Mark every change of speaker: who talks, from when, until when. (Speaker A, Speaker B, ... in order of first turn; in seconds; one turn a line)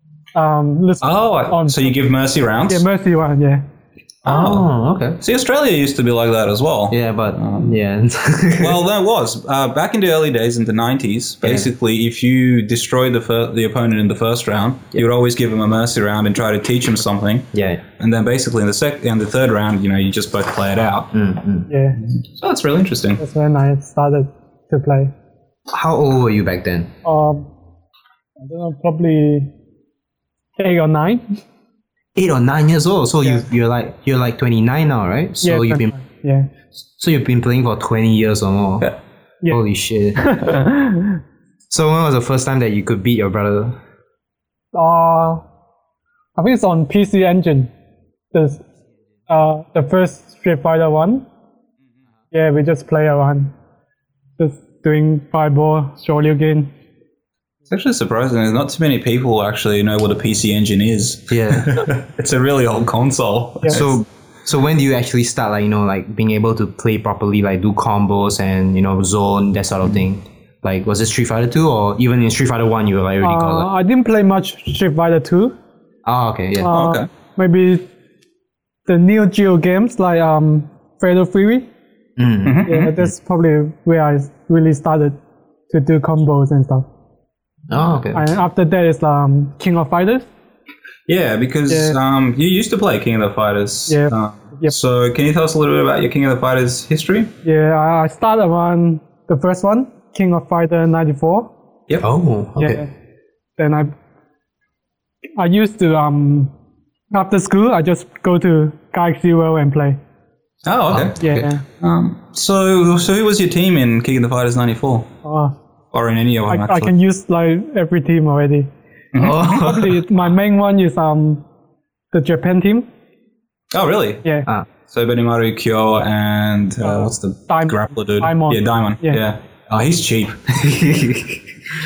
Speaker A: 0.3-1.9
Speaker B: 1.0-2.9
Speaker A: 2.7-3.6
Speaker B: 4.2-4.7
Speaker C: 4.3-5.2
Speaker B: 5.2-7.8
Speaker C: 6.9-8.8
Speaker B: 8.6-21.1
Speaker C: 11.4-11.7
Speaker C: 17.5-17.8
Speaker C: 21.1-21.7
Speaker A: 21.7-22.0
Speaker B: 22.0-23.2
Speaker A: 23.2-25.1
Speaker C: 25.7-26.9
Speaker A: 27.0-27.5
Speaker A: 28.4-29.5
Speaker A: 30.6-31.4
Speaker C: 32.2-36.0
Speaker A: 35.4-36.5
Speaker C: 36.9-38.9
Speaker C: 39.5-40.3
Speaker A: 40.2-41.2
Speaker C: 41.7-43.8
Speaker A: 44.7-45.5
Speaker A: 46.4-47.7
Speaker A: 48.3-48.6
Speaker A: 49.3-51.3
Speaker A: 52.3-53.5
Speaker A: 54.4-56.7
Speaker B: 57.7-64.0
Speaker C: 61.3-61.8
Speaker C: 63.7-73.7
Speaker A: 73.2-75.6
Speaker C: 76.0-76.7
Speaker A: 76.6-77.9
Speaker B: 76.7-77.1
Speaker A: 78.9-81.7
Speaker C: 82.2-82.7
Speaker B: 82.4-83.0
Speaker A: 82.7-85.2
Speaker A: 85.7-86.9
Speaker C: 87.7-88.3
Speaker A: 88.1-90.3
Speaker B: 91.1-97.3
Speaker A: 91.7-92.0
Speaker A: 93.9-94.8
Speaker A: 97.4-101.5
Speaker C: 102.0-102.9
Speaker A: 102.6-102.9
Speaker A: 103.6-103.9
Speaker A: 105.4-106.5
Speaker A: 107.1-110.0
Speaker B: 110.6-115.1
Speaker C: 110.9-111.2
Speaker A: 111.2-111.6
Speaker A: 115.2-115.6
Speaker B: 115.9-116.9
Speaker A: 116.5-118.7
Speaker B: 119.1-119.8
Speaker C: 119.2-120.0
Speaker A: 119.4-121.4
Speaker A: 122.1-122.9
Speaker B: 123.7-124.2
Speaker B: 124.9-130.8
Speaker A: 126.8-129.2
Speaker C: 130.6-131.4